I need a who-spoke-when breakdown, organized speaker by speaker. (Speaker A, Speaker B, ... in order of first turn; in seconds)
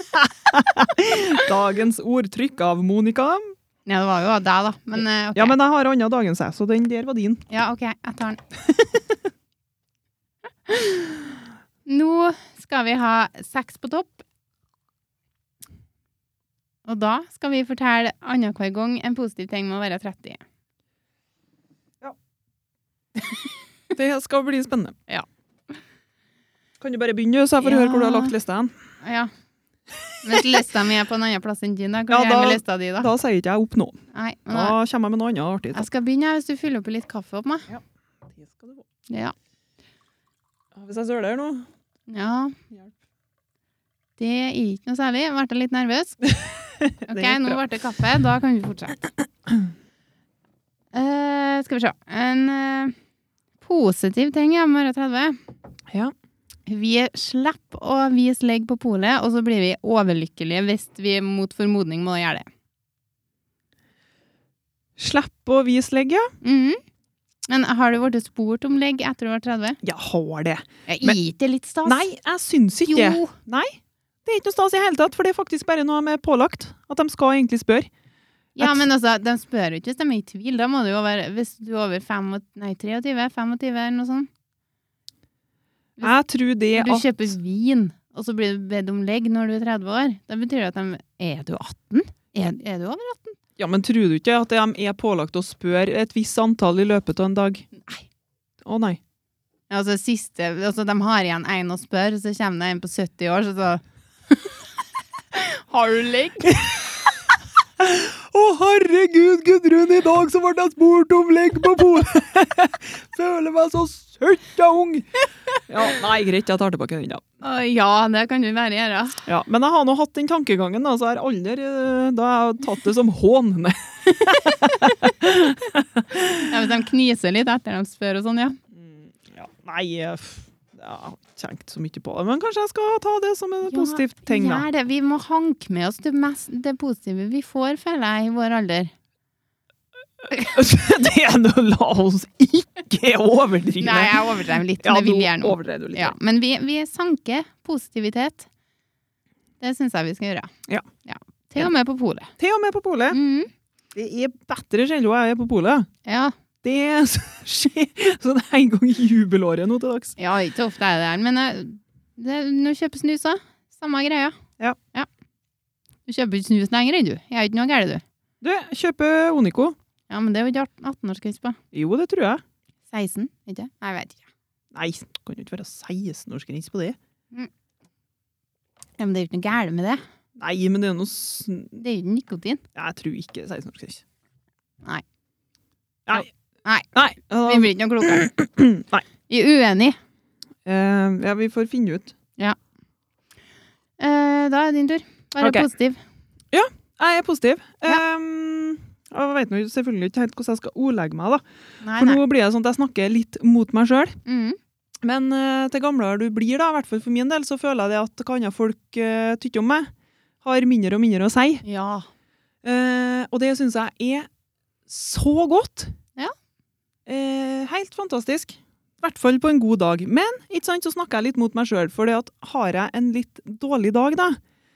Speaker A: 0.2-3.5, 5.3-7.5, 23.9-25.0, 26.8-28.7, 32.1-34.0, 34.5-35.9, 38.3-38.8, 40.8-41.7, 46.4-47.6, 65.0-66.3, 69.8-71.2, 71.8-77.9, 78.6-78.8, 86.0-87.3, 93.6-97.7, 98.6-99.0, 107.8-115.1, 115.7-117.2, 119.3-126.5, 128.7-134.7, 140.3-146.2, 152.4-153.2, 153.9-155.9, 156.6-160.2, 168.4-169.8, 171.7-172.4, 174.7-177.0, 180.4-181.8, 182.8-184.0, 186.9-189.1, 190.7-192.1, 195.4-195.7, 196.5-201.4, 202.0-204.2, 205.0-211.6, 212.6-214.3, 214.9-215.9, 217.1-224.4
Speaker B: 3.9-5.6, 7.5-8.4, 10.7-11.3, 11.9-14.2, 16.9-20.4, 27.6-28.4, 29.0-29.3, 30.2-33.1, 34.1-34.8, 35.7-37.7, 39.1-39.3, 42.1-42.6, 44.2-46.2, 47.1-49.0, 50.9-53.0, 53.6-55.4, 56.7-62.5, 66.4-66.8, 67.5-69.8, 70.9-72.1, 72.9-73.3, 78.6-84.3, 86.7-93.4, 97.8-98.0, 99.7-104.5, 105.3-106.8, 117.4-119.2, 126.4-128.6, 133.6-138.9, 143.8-148.5, 149.6-150.5, 151.1-152.3, 153.1-153.5, 156.1-156.3, 160.2-164.4, 166.1-168.0, 170.1-171.6, 172.9-174.2, 179.0-180.0, 181.8-182.6, 186.2-186.9, 187.4-188.2, 189.3-190.0, 194.0-196.0, 201.8-202.2, 204.2-204.6, 211.7-212.1